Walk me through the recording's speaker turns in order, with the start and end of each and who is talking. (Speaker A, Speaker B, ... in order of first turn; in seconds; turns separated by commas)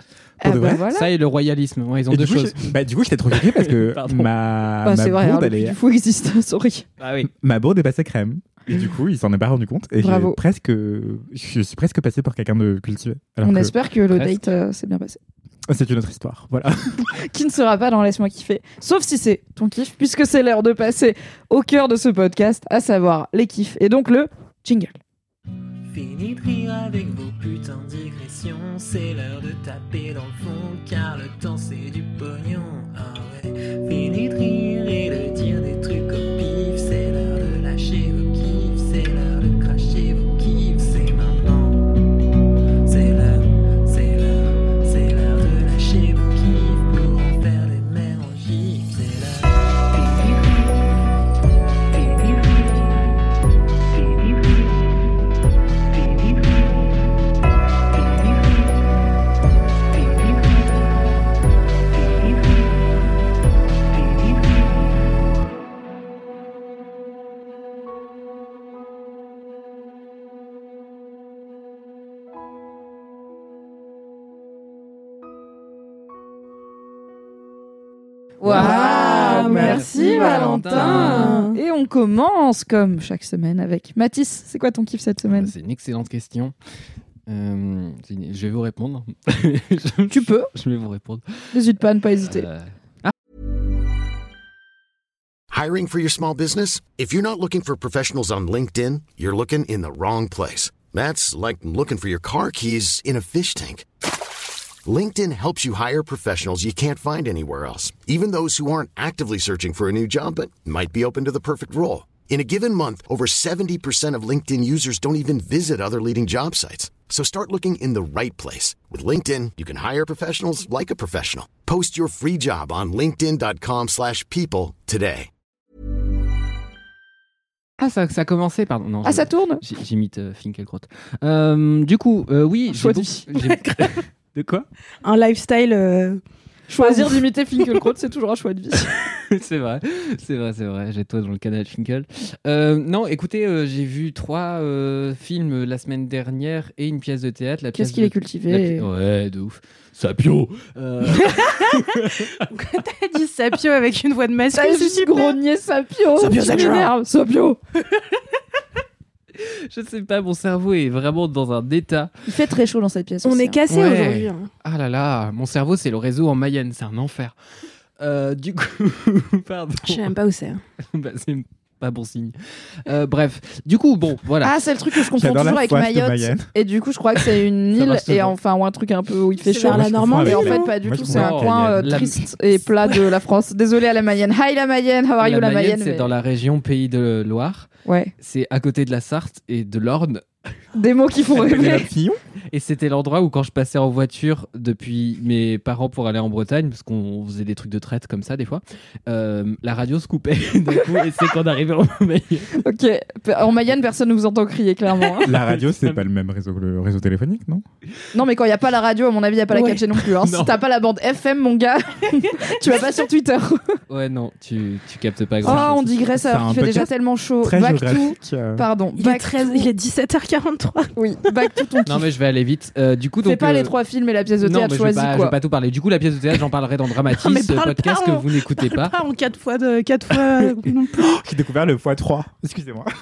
Speaker A: 0.4-1.1, Speaker B: 0.4-0.8, Speaker C: 0.9-2.7, Speaker B: 2.1-5.8, Speaker C: 3.3-4.3, Speaker A: 4.8-6.8, Speaker C: 7.0-7.3, Speaker B: 7.2-13.7, Speaker A: 10.0-10.4, Speaker A: 13.4-15.2, Speaker C: 14.1-14.4, Speaker B: 15.7-17.1, Speaker A: 17.1-25.0, Speaker D: 25.9-41.9, Speaker D: 42.8-50.8, Speaker D: 51.9-53.1, Speaker D: 53.9-54.9, Speaker D: 55.9-57.0, Speaker D: 57.9-58.7, Speaker D: 59.9-60.9, Speaker D: 61.9-62.7, Speaker D: 63.9-64.8, Speaker A: 78.4-85.5, Speaker C: 78.4-81.5, Speaker E: 78.5-81.6, Speaker C: 85.3-86.5, Speaker C: 87.3-91.6, Speaker A: 90.1-90.5, Speaker A: 91.5-92.5, Speaker C: 92.2-93.1, Speaker F: 95.5-103.8, Speaker F: 104.8-125.3, Speaker C: 127.8-134.7, Speaker A: 129.0-129.6, Speaker A: 132.7-133.3, Speaker E: 133.3-134.0, Speaker E: 135.0-136.2, Speaker A: 136.7-138.9, Speaker E: 136.8-137.7, Speaker C: 138.9-152.5, Speaker A: 147.7-148.9, Speaker E: 151.1-155.4, Speaker A: 154.5-157.6, Speaker E: 156.2-156.9, Speaker C: 159.3-162.1, Speaker A: 162.2-163.6, Speaker E: 163.2-164.5, Speaker C: 163.7-167.3, Speaker C: 168.0-170.1, Speaker E: 169.8-170.6, Speaker C: 170.8-174.6, Speaker A: 174.4-186.1, Speaker B: 175.1-176.5, Speaker C: 177.7-178.3, Speaker E: 179.4-180.7, Speaker B: 179.7-182.0, Speaker C: 181.0-182.2, Speaker C: 185.2-187.7, Speaker A: 187.8-188.1, Speaker C: 188.2-190.2, Speaker A: 190.7-191.9, Speaker C: 191.3-202.6, Speaker A: 202.6-205.3, Speaker C: 205.2-206.0, Speaker B: 205.2-207.6, Speaker A: 208.1-213.8, Speaker E: 209.5-209.8, Speaker C: 210.2-210.6, Speaker C: 213.9-216.0, Speaker A: 215.4-219.7, Speaker B: 216.2-218.6, Speaker E: 218.9-220.9, Speaker A: 220.9-222.0, Speaker C: 221.8-223.7, Speaker A: 223.2-225.3, Speaker C: 224.4-229.0, Speaker E: 227.1-231.1, Speaker C: 230.1-230.6, Speaker B: 230.9-232.9